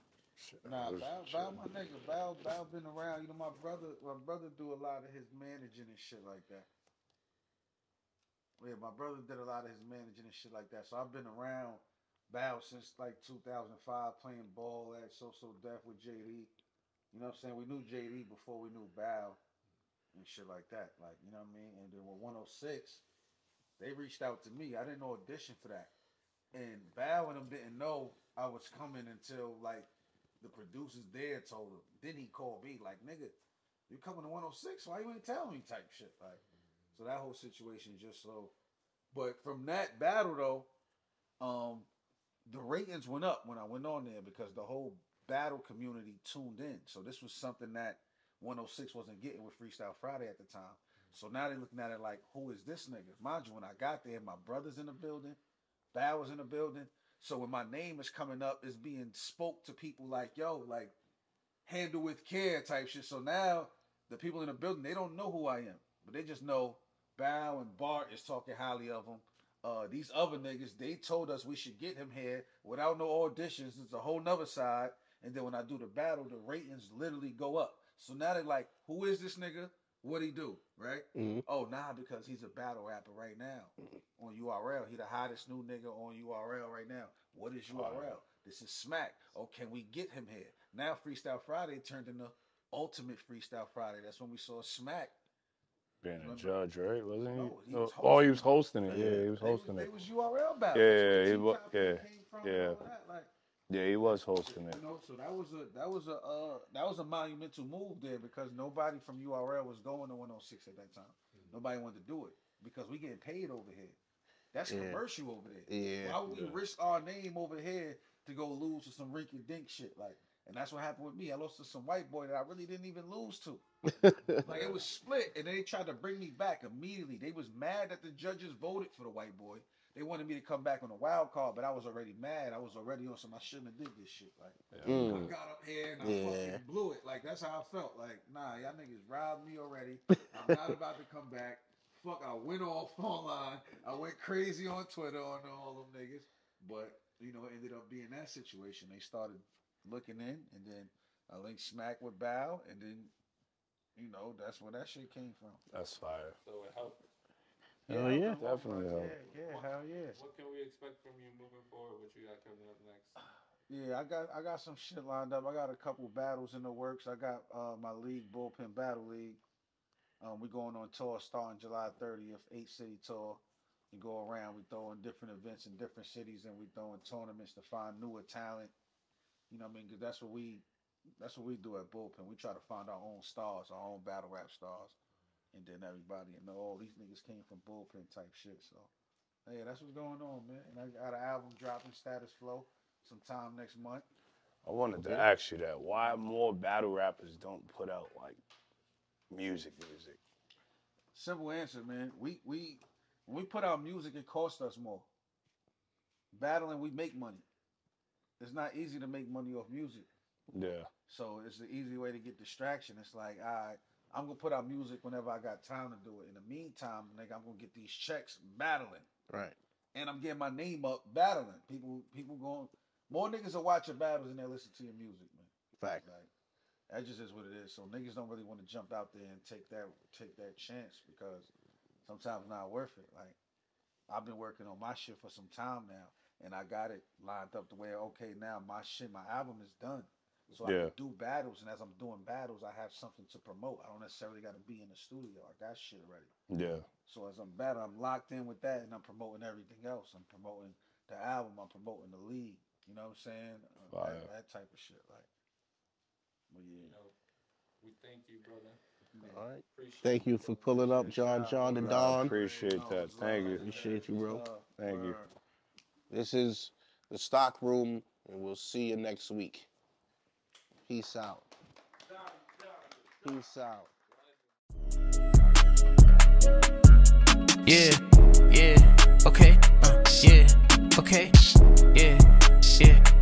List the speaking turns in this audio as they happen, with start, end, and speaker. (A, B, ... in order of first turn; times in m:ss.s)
0:00.4-0:01.6 A
0:00.6-0:06.7 B
0:08.6-0:16.5 B
0:17.1-0:19.4 B
0:20.1-0:23.0 B
0:23.8-0:25.9 B
0:26.5-0:29.9 B
0:30.4-0:33.4 B
0:33.9-0:36.4 B
0:36.9-0:38.5 B
0:39.1-0:40.7 B
0:41.4-0:41.9 B
0:42.4-0:55.4 B
0:55.9-1:00.9 B
1:01.6-1:35.2 B
1:21.1-1:21.4 C
1:27.7-1:28.2 A
1:36.0-1:39.9 A
1:36.2-1:36.5 B
1:37.4-1:43.3 B
1:40.7-1:42.8 A
1:43.7-1:44.8 A
1:44.4-1:54.0 B
1:54.5-2:03.6 B
1:54.7-1:55.0 C
1:55.7-1:56.2 C
1:56.3-1:56.5 A
2:03.8-2:04.7 C
2:04.4-2:33.1 B
2:04.4-2:04.8 A
2:14.7-2:15.3 A
2:14.8-2:15.3 C
2:16.0-2:16.6 C
2:20.1-2:20.6 C
2:34.0-2:35.6 B
2:35.7-2:36.4 A
2:36.4-2:37.0 D
2:37.9-2:38.4 C
2:37.9-2:40.2 B
2:38.4-2:39.1 A
2:39.4-2:43.1 D
2:43.7-2:49.4 B
2:50.2-2:58.7 B
2:59.5-3:00.6 B
3:01.2-3:05.0 B
3:05.5-3:08.9 B
3:09.4-3:14.0 B
3:14.6-3:18.4 A
3:14.9-3:15.3 B
3:19.3-3:20.2 A
3:21.1-3:25.1 B
3:26.3-3:27.4 B
3:28.4-3:30.1 B
3:30.5-3:30.9 A
3:31.1-3:39.1 B
3:39.3-3:39.6 C
3:39.9-3:46.3 B
3:45.8-3:46.0 C
3:46.9-3:51.5 B
3:52.0-3:53.4 B
3:54.1-4:06.3 B
4:00.6-4:00.9 A
4:06.5-4:06.8 A
4:07.0-4:15.3 B
4:13.9-4:14.3 A
4:16.5-4:16.9 B
4:16.8-4:17.1 D
4:17.8-4:18.8 D
4:19.1-4:19.4 B
4:19.2-4:22.3 C
4:19.7-4:21.9 D
4:21.5-4:25.3 B
4:21.8-4:23.8 A
4:23.5-4:24.4 C
4:23.7-4:24.0 D
4:24.8-4:25.2 A
4:26.1-4:29.7 C
4:30.8-4:31.5 C
4:33.2-4:33.9 C
4:37.6-4:41.4 E
4:41.9-4:43.0 E